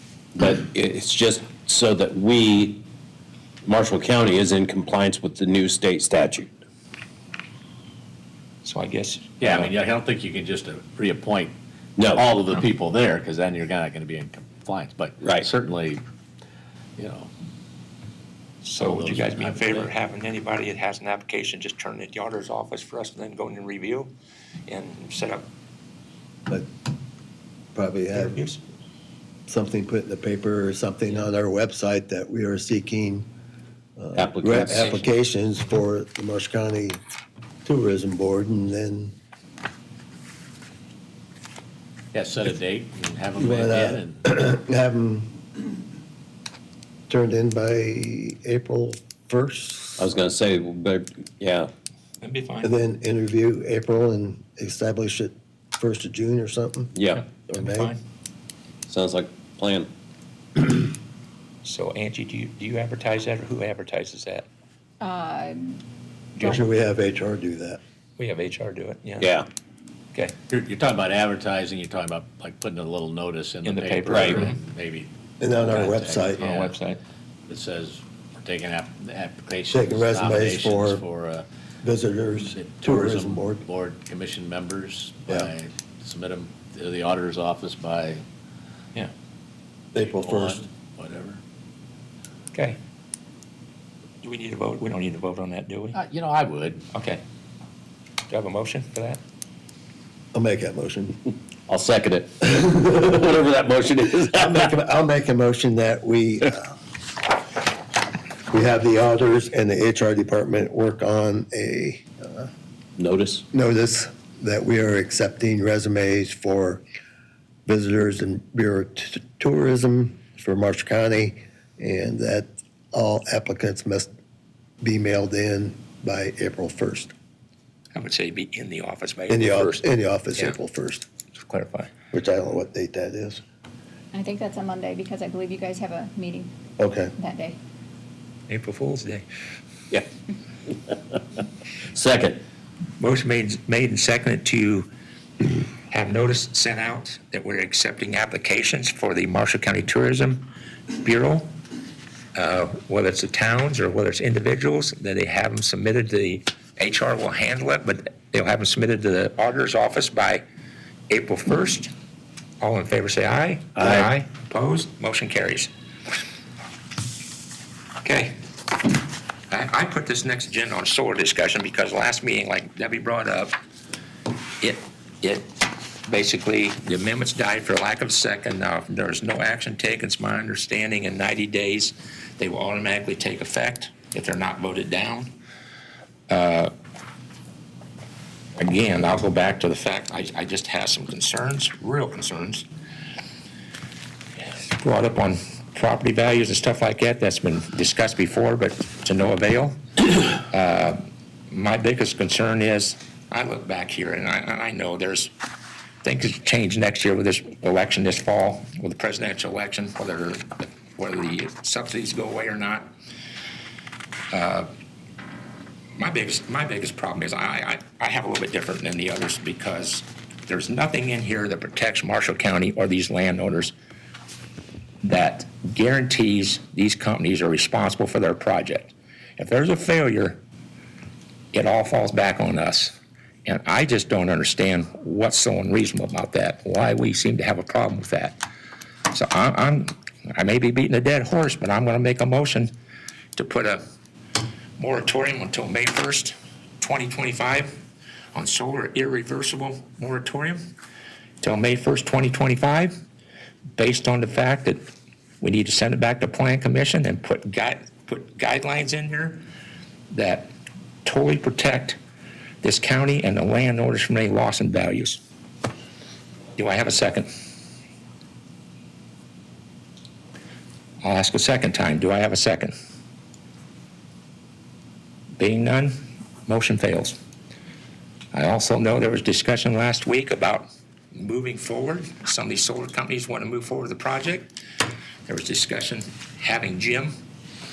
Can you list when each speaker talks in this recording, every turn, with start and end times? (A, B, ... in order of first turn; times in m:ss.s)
0:00.4-0:02.8 A
0:03.6-0:06.5 A
0:08.6-0:09.7 B
0:09.4-0:11.5 C
0:12.0-0:12.2 A
0:12.1-0:16.0 C
0:15.2-0:15.5 A
0:17.0-0:17.3 C
0:18.6-0:24.1 B
0:18.8-0:19.9 C
0:24.7-0:25.4 B
0:27.7-0:28.4 D
0:28.1-0:28.6 B
0:29.5-0:33.2 D
0:34.0-0:37.0 D
0:34.2-0:35.0 A
0:37.6-0:39.1 D
0:42.1-0:44.2 C
0:43.3-0:45.3 D
0:47.1-0:50.0 D
0:50.0-0:51.7 A
0:52.2-0:52.7 B
0:52.6-0:56.9 D
0:56.9-0:57.2 A
0:57.4-0:58.0 B
0:57.5-0:57.9 D
0:58.9-0:59.9 A
1:01.6-1:04.4 B
1:05.0-1:05.8 E
1:06.4-1:07.8 D
1:08.2-1:09.3 B
1:09.2-1:09.5 A
1:10.5-1:16.8 C
1:13.6-1:14.6 B
1:14.1-1:14.4 A
1:15.4-1:16.4 D
1:16.4-1:17.0 B
1:17.5-1:21.4 C
1:19.7-1:21.0 D
1:21.8-1:23.6 D
1:22.6-1:28.2 C
1:29.9-1:30.6 D
1:30.0-1:31.4 C
1:32.5-1:32.8 B
1:34.2-1:36.0 B
1:35.9-1:36.8 C
1:36.9-1:37.2 B
1:38.3-1:39.2 B
1:40.3-1:41.2 D
1:41.7-1:44.7 A
1:42.6-1:43.2 D
1:44.2-1:46.8 D
1:48.5-1:52.5 D
1:53.0-1:53.4 A
1:53.5-1:56.8 D
1:57.6-2:04.1 D
2:04.8-2:07.1 D
2:07.9-2:10.6 B
2:09.3-2:11.0 D
2:11.4-2:11.9 B
2:12.1-2:13.4 D
2:14.1-2:16.5 E
2:16.8-2:17.1 D
2:17.2-2:17.6 E
2:18.5-2:19.2 B
2:21.9-2:22.4 A
2:23.0-2:24.9 B
2:25.9-2:31.6 B
2:32.3-2:40.4 B
2:41.1-2:41.9 B
2:42.6-2:45.7 B
2:43.8-2:44.1 C
2:48.0-2:48.4 B
2:49.5-2:53.6 B
2:54.6-3:05.3 B
3:06.3-3:06.7 B
3:08.6-3:12.7 B
3:14.5-3:25.3 B
3:26.0-3:32.9 B
3:34.3-3:34.7 B
3:36.0-3:43.7 B
3:45.0-3:50.4 B
3:51.5-3:58.4 B
3:59.1-4:02.7 B
4:03.4-4:03.8 B
4:04.8-4:07.8 B
4:08.3-4:10.6 B
4:11.4-4:12.9 B
4:13.7-4:14.9 B
4:15.4-4:19.4 B
4:20.1-4:20.5 B
4:21.0-4:22.0 B
4:22.6-4:25.2 B
4:26.6-4:27.3 B
4:31.0-4:32.7 B
4:35.4-4:36.0 B
4:36.5-4:37.2 B
4:38.3-4:44.5 B
4:45.2-4:47.2 B